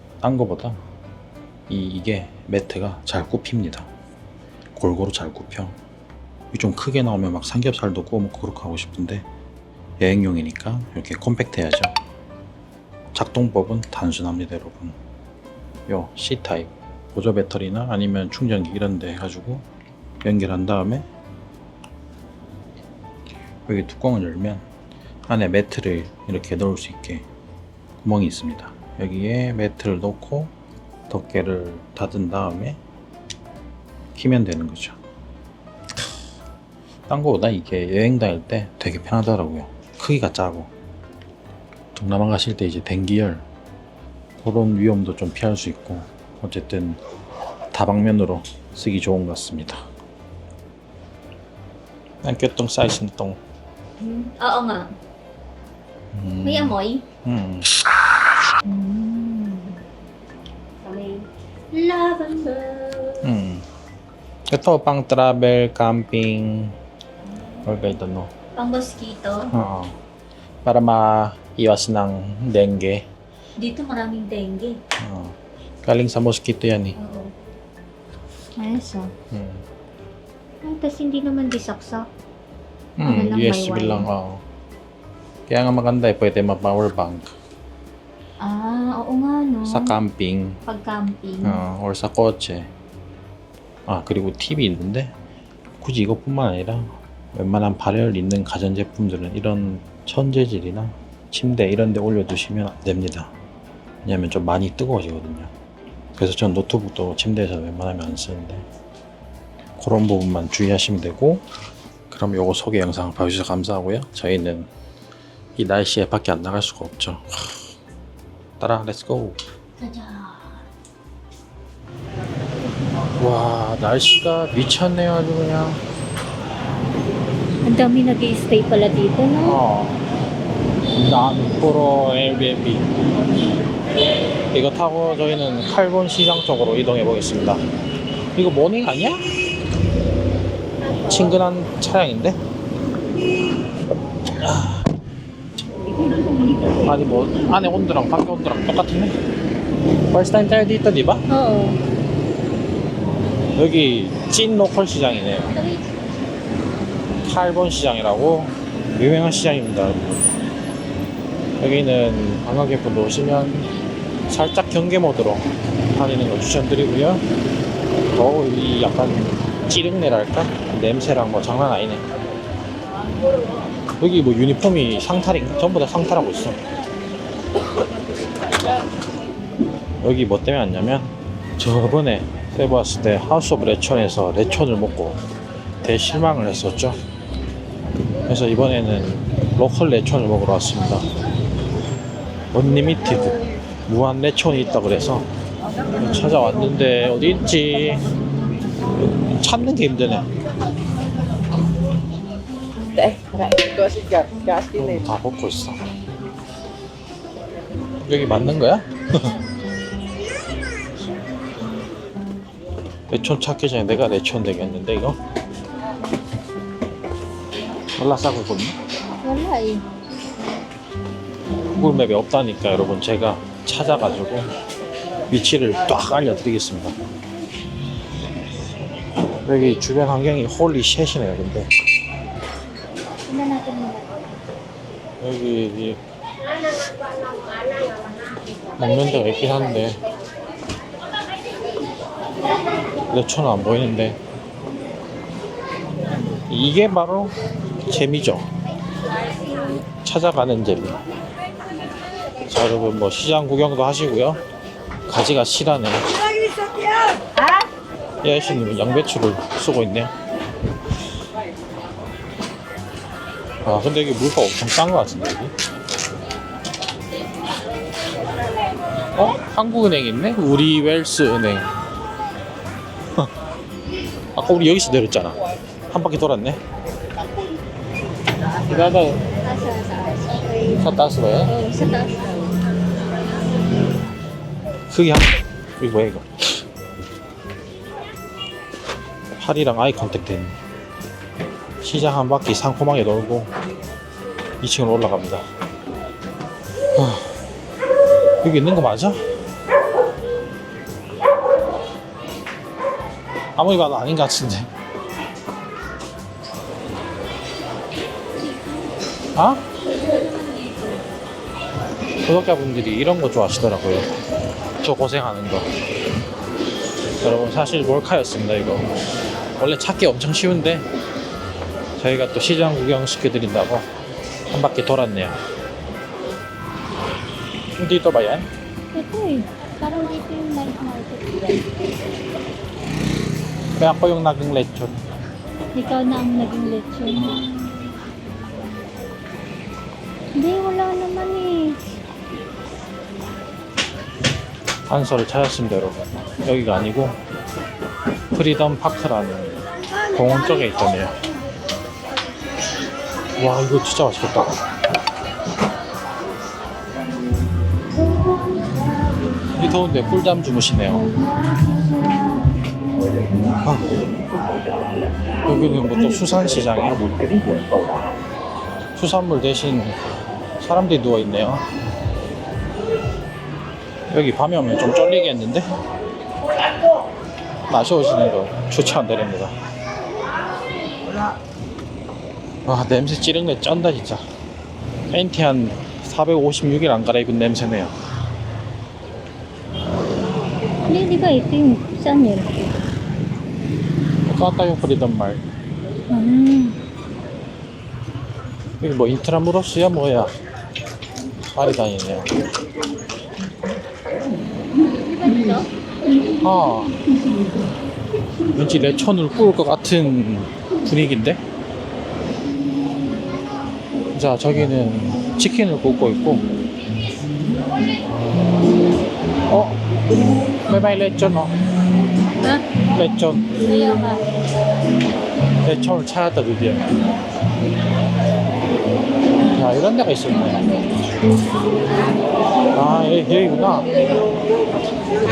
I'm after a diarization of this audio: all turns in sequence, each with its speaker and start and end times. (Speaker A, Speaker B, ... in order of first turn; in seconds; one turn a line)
Speaker A: 0.2-0.8
Speaker A: 1.7-3.9
Speaker A: 4.7-5.7
Speaker A: 6.5-9.2
Speaker A: 10.0-11.9
Speaker A: 13.1-14.9
Speaker A: 15.9-19.6
Speaker A: 20.2-21.1
Speaker A: 23.7-24.6
Speaker A: 25.3-27.2
Speaker A: 28.0-30.5
Speaker A: 31.1-32.8
Speaker A: 34.1-35.0
Speaker A: 37.1-40.7
Speaker A: 41.9-43.4
Speaker A: 44.4-47.0
Speaker A: 47.7-49.8
Speaker A: 52.2-53.4
Speaker B: 54.0-54.9
Speaker A: 56.1-57.8
Speaker B: 56.4-57.0
Speaker B: 58.6-59.8
Speaker B: 60.8-63.3
Speaker A: 63.2-63.6
Speaker A: 64.5-66.7
Speaker A: 67.6-68.3
Speaker B: 68.5-69.5
Speaker A: 69.5-70.0
Speaker A: 70.6-73.0
Speaker B: 73.6-74.8
Speaker A: 75.0-77.0
Speaker B: 77.0-77.3
Speaker B: 78.6-79.1
Speaker A: 79.3-79.6
Speaker B: 80.6-82.0
Speaker A: 83.0-84.4
Speaker B: 83.0-84.1
Speaker A: 85.5-87.3
Speaker B: 88.4-90.0
Speaker A: 89.7-90.6
Speaker B: 90.7-91.6
Speaker A: 91.4-92.7
Speaker A: 93.9-95.1
Speaker A: 95.8-103.3
Speaker A: 104.0-105.5
Speaker A: 106.2-108.6
Speaker A: 109.8-111.4
Speaker A: 112.1-114.7
Speaker A: 115.6-117.7
Speaker A: 118.6-119.4
Speaker B: 119.8-120.6
Speaker A: 123.2-125.8
Speaker B: 127.6-129.6
Speaker A: 129.4-130.0
Speaker A: 130.9-132.8
Speaker A: 134.5-137.6
Speaker A: 138.3-139.2
Speaker A: 141.1-142.4
Speaker A: 144.4-144.8
Speaker B: 146.0-146.6
Speaker A: 146.8-149.1
Speaker A: 150.1-151.2
Speaker B: 151.3-151.8
Speaker A: 153.6-155.5
Speaker B: 155.5-156.1
Speaker A: 157.2-160.2
Speaker A: 161.6-163.7
Speaker A: 164.3-167.2
Speaker A: 168.1-172.0
Speaker A: 174.0-176.6
Speaker A: 180.0-185.2
Speaker A: 185.8-187.0
Speaker A: 188.3-191.0
Speaker A: 192.5-195.2
Speaker A: 196.0-198.0
Speaker A: 199.1-200.2
Speaker A: 204.7-205.8
Speaker A: 208.0-209.3
Speaker A: 213.1-215.2
Speaker A: 218.0-218.8
Speaker B: 219.2-219.8
Speaker A: 221.8-224.5
Speaker A: 225.3-226.9
Speaker A: 229.4-231.7
Speaker B: 233.2-234.1
Speaker A: 235.2-236.0
Speaker A: 238.8-240.0
Speaker A: 243.1-244.2
Speaker A: 246.5-247.3
Speaker A: 247.9-248.5
Speaker A: 250.0-251.0
Speaker A: 252.5-254.4
Speaker A: 255.1-256.1
Speaker A: 258.2-260.1
Speaker A: 263.6-265.5
Speaker A: 269.1-271.7
Speaker A: 274.3-275.4
Speaker A: 275.9-276.6
Speaker A: 278.7-279.2
Speaker B: 279.2-280.8
Speaker A: 280.7-281.5
Speaker B: 281.4-282.3
Speaker A: 284.9-286.6
Speaker A: 289.4-290.6
Speaker A: 291.8-293.5
Speaker A: 294.6-295.4
Speaker A: 296.9-297.3
Speaker A: 298.4-299.2
Speaker A: 303.6-304.7
Speaker B: 308.4-309.0
Speaker A: 309.3-309.6
Speaker B: 310.0-311.1
Speaker A: 312.2-314.1
Speaker A: 314.8-315.7
Speaker A: 317.2-318.9
Speaker A: 319.6-320.8
Speaker A: 322.0-323.8
Speaker A: 324.5-325.4
Speaker A: 327.8-328.4
Speaker B: 328.9-331.6
Speaker A: 333.8-334.9
Speaker B: 335.7-337.9
Speaker B: 340.3-341.8
Speaker A: 344.9-347.1
Speaker A: 348.3-351.1
Speaker A: 353.4-354.5
Speaker A: 359.6-361.1
Speaker A: 363.5-363.9
Speaker A: 365.4-367.1
Speaker A: 368.9-369.9
Speaker A: 370.6-371.6
Speaker A: 374.1-375.6
Speaker A: 377.7-379.5
Speaker A: 382.6-384.2
Speaker A: 385.1-387.9
Speaker B: 390.9-392.5
Speaker A: 394.2-395.4
Speaker B: 396.1-396.8
Speaker A: 398.8-400.3
Speaker A: 401.5-402.3
Speaker B: 405.1-405.7
Speaker A: 406.4-406.9
Speaker A: 408.5-411.4
Speaker A: 414.1-416.4
Speaker A: 419.5-419.8
Speaker A: 420.7-421.5
Speaker A: 422.9-423.4
Speaker B: 423.6-424.2
Speaker A: 425.6-426.9
Speaker A: 429.5-430.7
Speaker A: 432.7-433.9